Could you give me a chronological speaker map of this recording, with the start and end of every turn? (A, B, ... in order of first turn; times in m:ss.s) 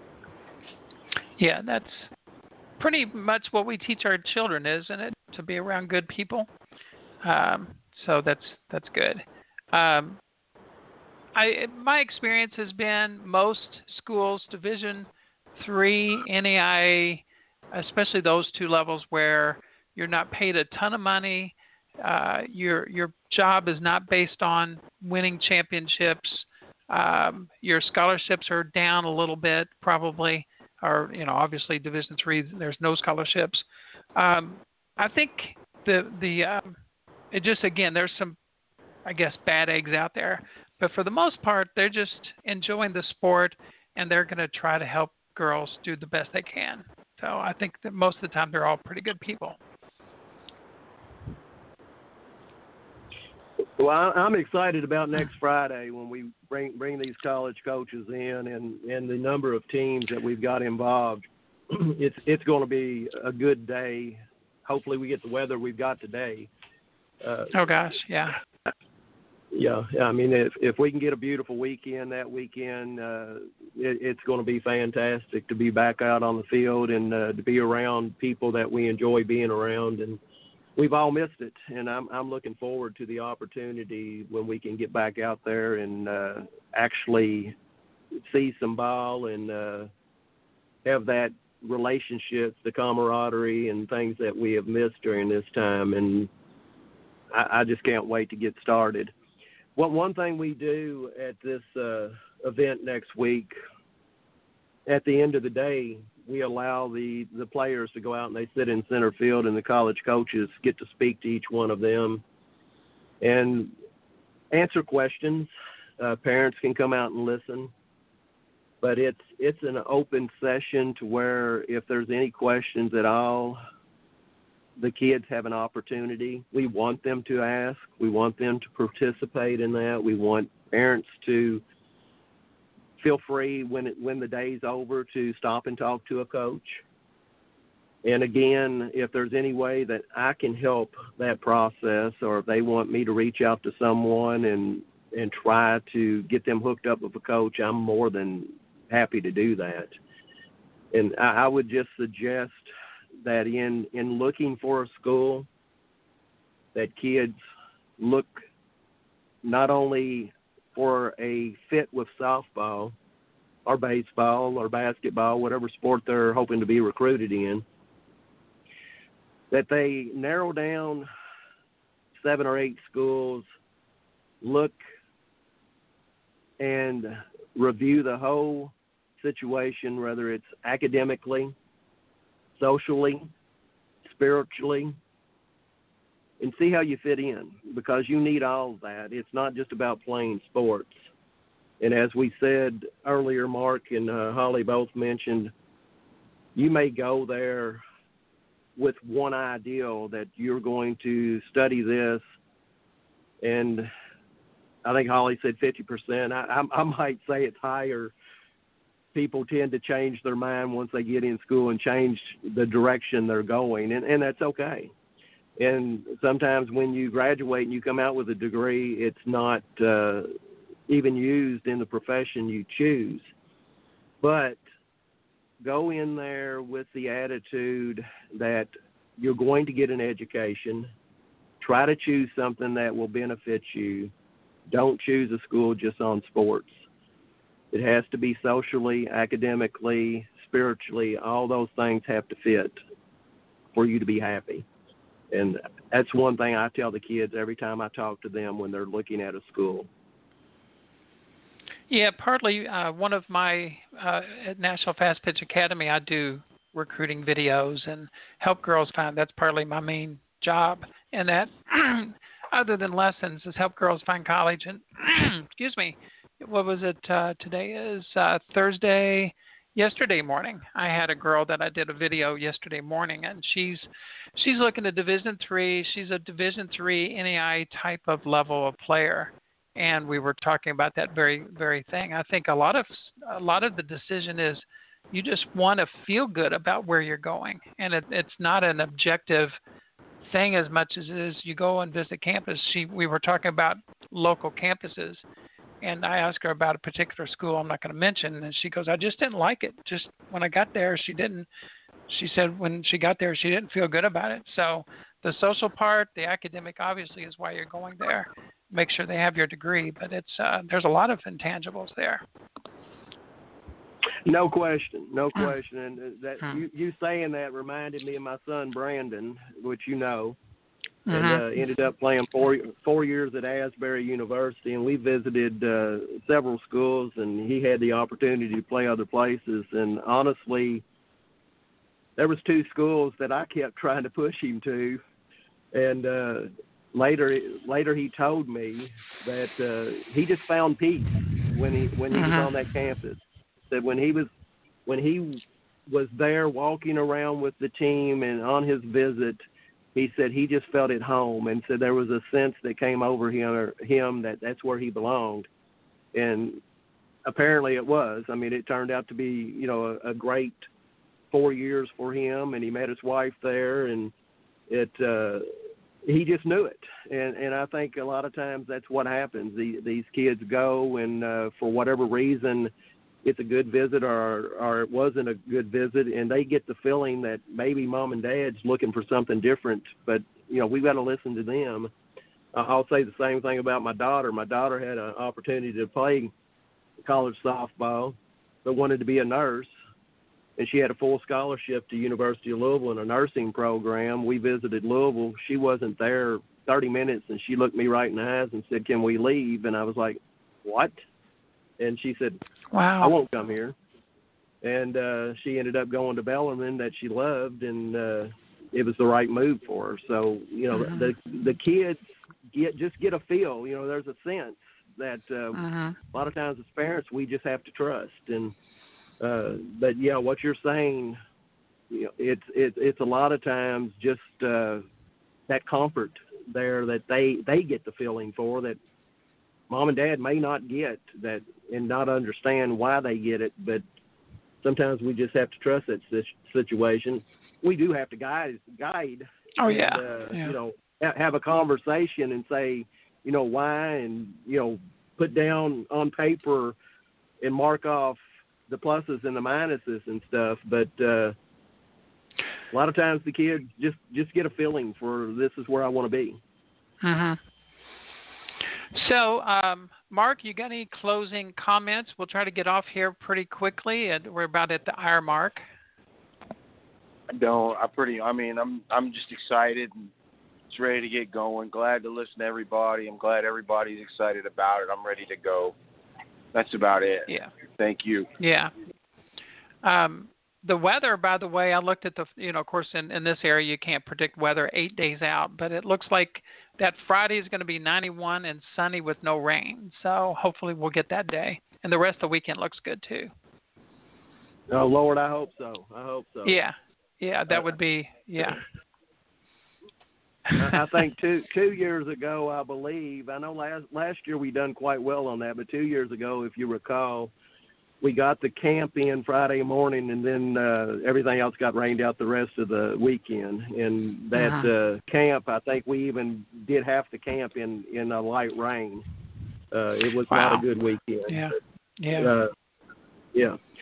0:01.4-0:02.1 A
0:02.8-0:06.5 A
0:07.2-0:10.2 A
0:11.4-0:33.6 A
0:34.2-0:36.8 A
0:37.3-0:38.4 A
0:39.0-0:49.6 A
0:53.8-1:06.5 B
1:07.2-1:07.5 B
1:07.5-1:08.4 A
1:09.5-1:20.2 B
1:20.8-1:27.6 B
1:28.2-1:29.9 B
1:30.8-1:36.3 B
1:37.3-1:39.1 B
1:39.8-1:43.5 B
1:44.9-1:52.2 B
1:53.2-1:53.7 B
1:54.5-1:57.7 B
1:58.8-2:03.6 B
2:04.8-2:11.6 B
2:13.0-2:16.8 B
2:18.0-2:29.9 B
2:30.9-2:32.7 B
2:33.2-2:35.5 B
2:36.8-2:37.4 B
2:38.0-2:38.4 B
2:39.4-2:42.9 B
2:43.7-2:47.6 B
2:49.5-2:51.1 B
2:52.1-2:53.5 B
2:54.4-2:54.8 B
2:56.6-3:01.5 B
3:02.6-3:03.3 B
3:04.0-3:05.0 B
3:06.4-3:11.1 B
3:11.8-3:15.5 B
3:16.6-3:17.8 B
3:18.8-3:22.2 B
3:23.4-3:23.9 B
3:24.8-3:28.1 B
3:29.1-3:34.9 B
3:35.6-3:40.3 B
3:40.9-3:43.3 B
3:44.2-3:44.6 B
3:45.6-3:50.9 B
3:51.6-3:54.1 B
3:54.7-3:56.8 B
3:57.7-4:02.8 B
4:03.7-4:04.6 B
4:05.3-4:09.9 B
4:11.9-4:49.6 A
4:50.3-4:55.2 A
4:55.8-5:01.5 A
5:02.1-5:12.2 A
5:14.3-5:20.4 B
5:21.1-5:21.4 A
5:21.1-5:30.8 B
5:32.2-5:35.0 B
5:35.7-5:44.3 B
5:42.1-5:42.5 A
5:44.9-5:49.4 B
5:50.0-5:55.5 B
5:56.1-5:56.6 B
5:57.2-6:00.7 B
6:01.3-6:04.1 B
6:04.7-6:05.5 B
6:06.0-6:12.7 B
6:13.2-6:21.9 B
6:22.5-6:26.3 B
6:27.0-6:29.7 B
6:30.6-6:41.0 B
6:41.8-6:42.4 B
6:42.7-6:43.2 A
6:43.0-6:43.8 B
6:44.6-6:52.0 B
6:50.7-6:51.1 A
6:52.5-6:55.6 B
6:55.5-6:56.0 A
6:56.1-6:58.6 B
6:59.2-7:01.2 B
7:01.9-7:04.8 B
7:05.5-7:08.8 B
7:09.7-7:13.8 B
7:14.6-7:26.8 B
7:19.6-7:20.5 A
7:27.4-7:31.4 B
7:32.7-7:36.4 B
7:37.0-7:37.4 A
7:38.9-7:45.6 A
7:47.3-7:50.1 C
7:50.7-7:55.8 C
7:56.5-7:58.3 C
7:58.4-7:58.7 A
7:59.8-8:13.3 A
8:14.7-8:16.6 B
8:16.4-8:18.6 A
8:20.6-8:27.3 B
8:28.0-8:39.0 B
8:34.4-8:34.7 A
8:39.7-8:41.4 B
8:40.3-8:40.6 A
8:41.3-8:42.3 A
8:42.2-8:42.5 B
8:43.3-8:43.6 B